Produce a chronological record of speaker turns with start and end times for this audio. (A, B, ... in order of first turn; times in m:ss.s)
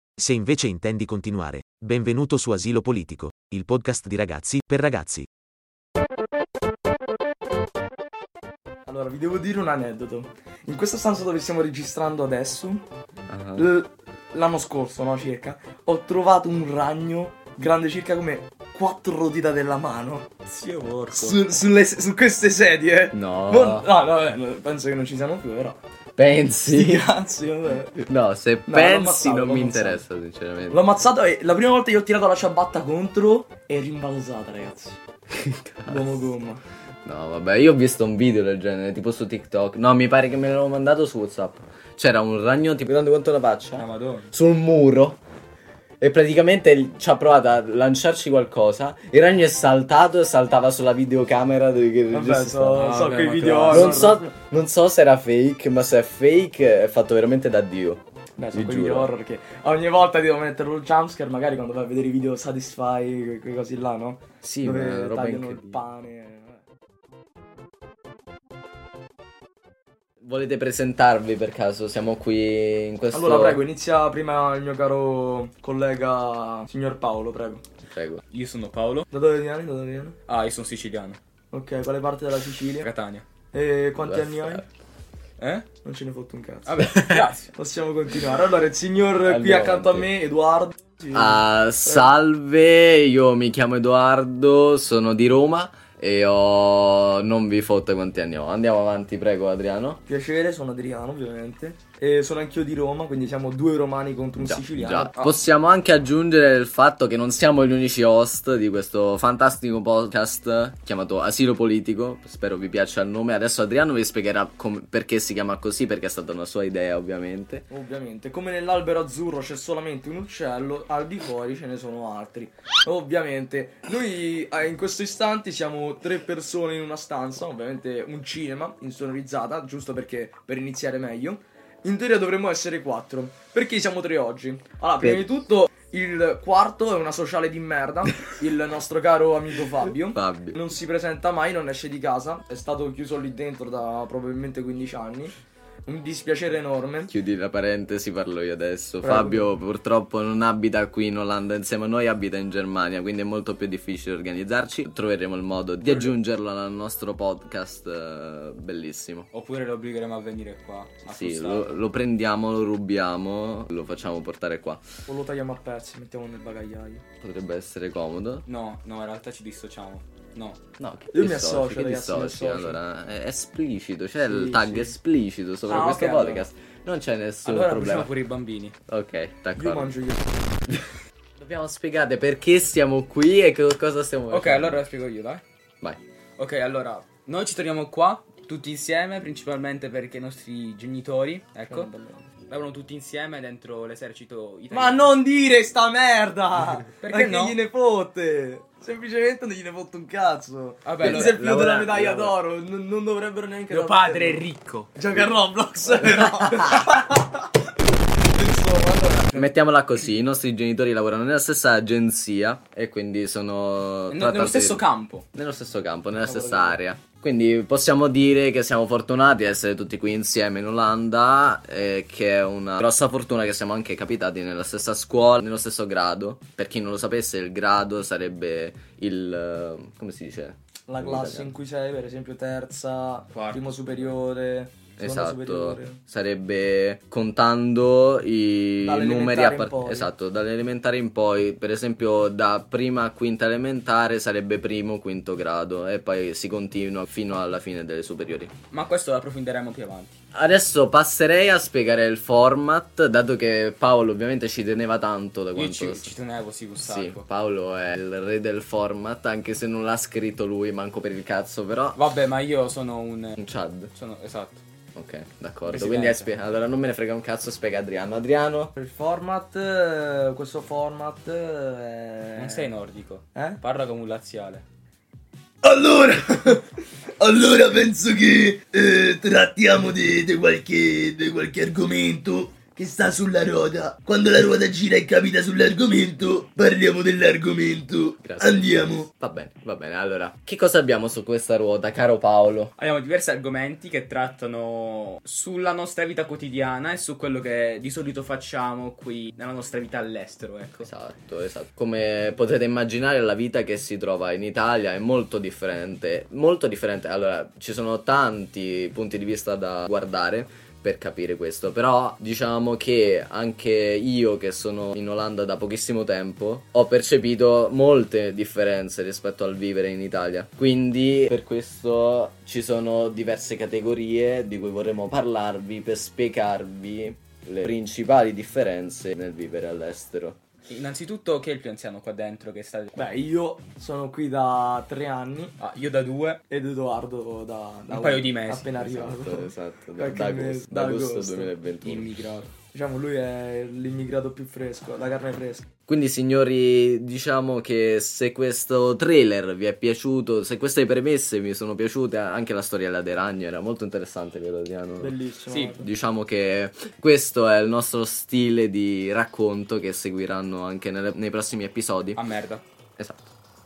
0:00.2-0:05.3 A
0:08.9-0:12.8 B
0:13.3-0:13.7 C
0:13.6-0:25.8 B
0:23.1-0:23.9 C
0:26.2-0:27.1 C
0:26.7-0:28.0 B
0:28.0-0:30.8 C
0:28.7-0:30.0 B
0:30.7-0:35.0 B
0:35.3-0:36.2 C
0:35.9-0:36.6 B
0:37.0-0:45.2 C
0:43.8-0:44.3 D
0:46.0-0:53.1 C
0:52.1-0:54.2 B
0:52.8-0:54.1 D
0:53.7-0:58.0 C
0:58.4-1:06.6 B
0:58.5-0:59.1 C
1:04.4-1:05.8 C
1:10.2-1:13.6 C
1:13.1-1:17.6 B
1:17.8-1:18.2 C
1:18.3-1:19.1 D
1:19.1-1:20.2 B
1:20.3-1:21.2 D
1:21.5-1:22.9 B
1:22.8-1:23.3 D
1:23.5-1:24.6 B
1:24.0-1:24.7 C
1:25.4-1:25.7 D
1:25.8-1:26.8 B
1:26.7-1:27.5 D
1:26.8-1:27.3 C
1:27.5-1:32.1 B
1:29.2-1:30.1 C
1:31.1-1:40.0 C
1:40.1-1:45.3 B
1:44.4-1:57.7 C
1:57.7-2:25.4 B
2:20.1-2:20.6 C
2:25.9-2:27.1 B
2:27.1-2:39.3 C
2:29.0-2:29.5 B
2:39.3-2:41.8 D
2:41.1-2:44.8 C
2:45.1-2:47.0 B
2:47.2-2:48.4 C
2:48.5-2:50.6 D
2:50.8-2:58.1 C
2:51.1-2:52.8 B
2:54.2-2:55.0 B
2:55.7-2:56.5 D
2:55.7-2:56.2 B
2:57.4-2:58.8 D
2:58.9-2:59.9 C
2:59.6-3:00.5 B
3:01.4-3:04.8 C
3:04.3-3:05.4 D
3:06.4-3:11.9 D
3:11.7-3:12.3 B
3:12.5-3:15.1 D
3:14.7-3:24.4 B
3:17.0-3:17.6 D
3:20.8-3:21.4 D
3:21.0-3:22.4 C
3:23.7-3:25.0 D
3:25.0-3:27.5 B
3:28.2-3:29.4 B
3:29.3-3:34.8 C
3:34.1-3:35.2 D
3:35.3-3:51.5 C
3:36.2-3:36.8 B
3:50.9-3:56.0 B
3:53.3-3:54.0 D
3:55.0-4:08.5 C
3:58.8-4:00.1 B
4:08.7-4:10.2 D
4:10.3-4:16.1 C
4:15.5-4:17.2 D
4:16.8-4:22.0 C
4:21.9-4:23.4 D
4:23.4-4:23.9 C
4:23.9-4:24.6 D
4:25.0-4:28.7 C
4:25.7-4:26.3 D
4:28.8-4:32.7 B
4:32.4-4:34.6 D
4:33.4-4:33.6 B
4:35.6-4:36.5 E
4:35.8-4:36.6 B
4:37.2-4:49.0 E
4:40.2-4:40.5 B
4:42.6-4:43.2 B
4:48.2-4:52.7 C
4:52.8-5:00.9 D
5:00.8-5:30.4 C
5:30.7-5:33.0 D
5:33.0-5:35.6 B
5:35.6-5:36.4 D
5:36.5-5:41.5 B
5:37.9-5:38.8 D
5:38.8-5:42.1 C
5:41.8-5:42.5 D
5:42.7-5:45.6 B
5:45.9-5:55.2 C
5:55.0-5:55.9 B
5:55.5-5:55.8 D
5:55.8-6:02.2 C
6:02.2-6:02.6 D
6:03.0-6:03.3 C